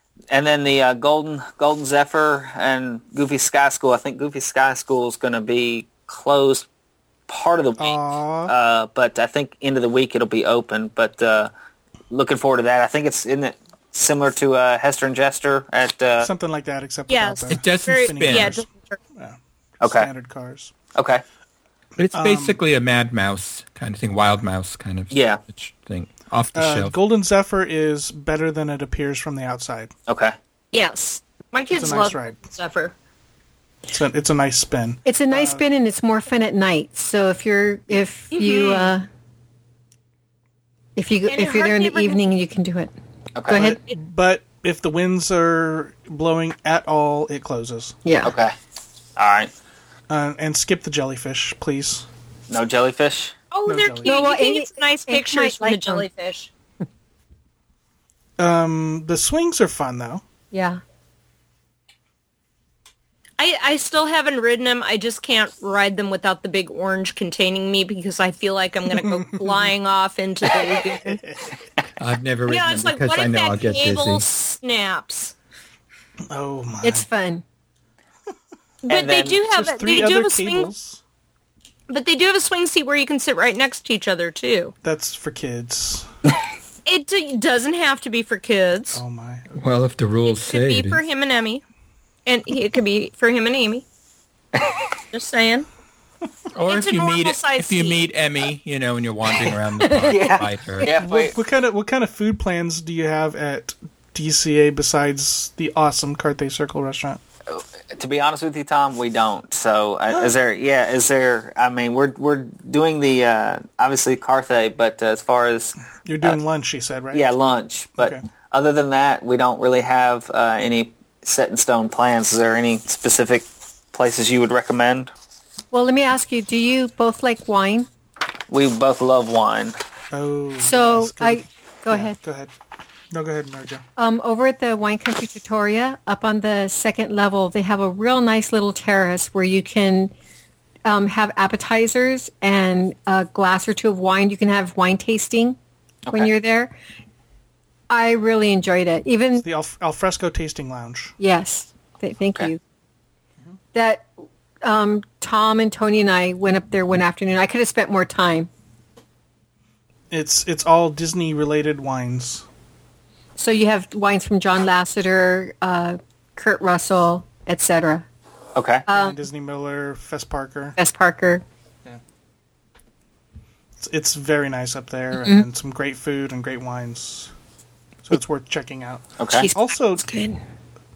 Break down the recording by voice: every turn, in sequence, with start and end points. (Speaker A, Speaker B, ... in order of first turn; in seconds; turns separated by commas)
Speaker A: 0.3-6.7, Speaker A: 7.3-11.5, Speaker B: 7.8-8.5, Speaker A: 12.1-16.3, Speaker B: 16.2-20.7, Speaker C: 17.1-19.0, Speaker D: 17.5-18.6, Speaker A: 19.8-20.1, Speaker A: 20.9-21.2, Speaker D: 22.0-26.9, Speaker B: 22.1-22.6, Speaker A: 25.1-25.4, Speaker B: 26.5-29.9, Speaker A: 30.1-30.4, Speaker C: 30.7-32.9, Speaker B: 31.7-32.4, Speaker B: 33.9-35.6, Speaker E: 35.1-39.1, Speaker C: 38.3-38.9, Speaker E: 41.0-42.9, Speaker C: 41.2-42.2, Speaker A: 43.4-43.8, Speaker E: 43.5-43.8, Speaker B: 43.5-48.0, Speaker E: 48.0-48.3, Speaker A: 48.2-48.5, Speaker A: 49.2-49.5, Speaker B: 50.1-52.1, Speaker A: 52.5-53.3, Speaker C: 53.5-56.5, Speaker B: 53.6-54.2, Speaker E: 54.0-56.1, Speaker B: 58.4-60.2, Speaker E: 60.5-60.8, Speaker C: 63.4-71.2, Speaker B: 69.0-69.6, Speaker B: 71.0-71.5, Speaker D: 72.0-74.2, Speaker C: 72.5-75.3, Speaker B: 76.3-77.1, Speaker E: 76.8-77.4, Speaker C: 78.8-80.7, Speaker A: 78.9-79.4, Speaker B: 79.5-81.0, Speaker C: 81.9-84.7, Speaker B: 84.8-86.1, Speaker C: 86.9-89.0, Speaker B: 88.9-89.7, Speaker D: 89.6-91.0, Speaker C: 90.3-91.6, Speaker C: 92.2-93.8, Speaker A: 94.5-94.8, Speaker C: 95.1-95.7, Speaker D: 96.5-100.9, Speaker C: 96.7-98.0, Speaker A: 100.1-101.3, Speaker B: 101.0-107.2, Speaker A: 107.5-116.4, Speaker B: 116.0-117.2, Speaker A: 117.1-125.1, Speaker B: 118.0-118.2, Speaker E: 125.7-127.9, Speaker A: 128.5-129.8, Speaker B: 130.1-132.5, Speaker E: 130.6-132.2, Speaker B: 133.1-133.8, Speaker E: 134.0-140.1, Speaker E: 140.8-145.6, Speaker E: 146.1-146.8, Speaker E: 147.9-149.4, Speaker B: 149.4-151.1, Speaker E: 151.2-152.6, Speaker E: 153.7-154.1, Speaker E: 154.6-158.5, Speaker B: 160.1-162.4, Speaker E: 163.4-168.0, Speaker A: 168.5-168.9, Speaker E: 168.9-169.2, Speaker B: 168.9-170.8, Speaker E: 170.8-171.4, Speaker B: 173.8-177.3, Speaker B: 178.0-180.1, Speaker A: 179.2-179.5, Speaker E: 179.3-180.4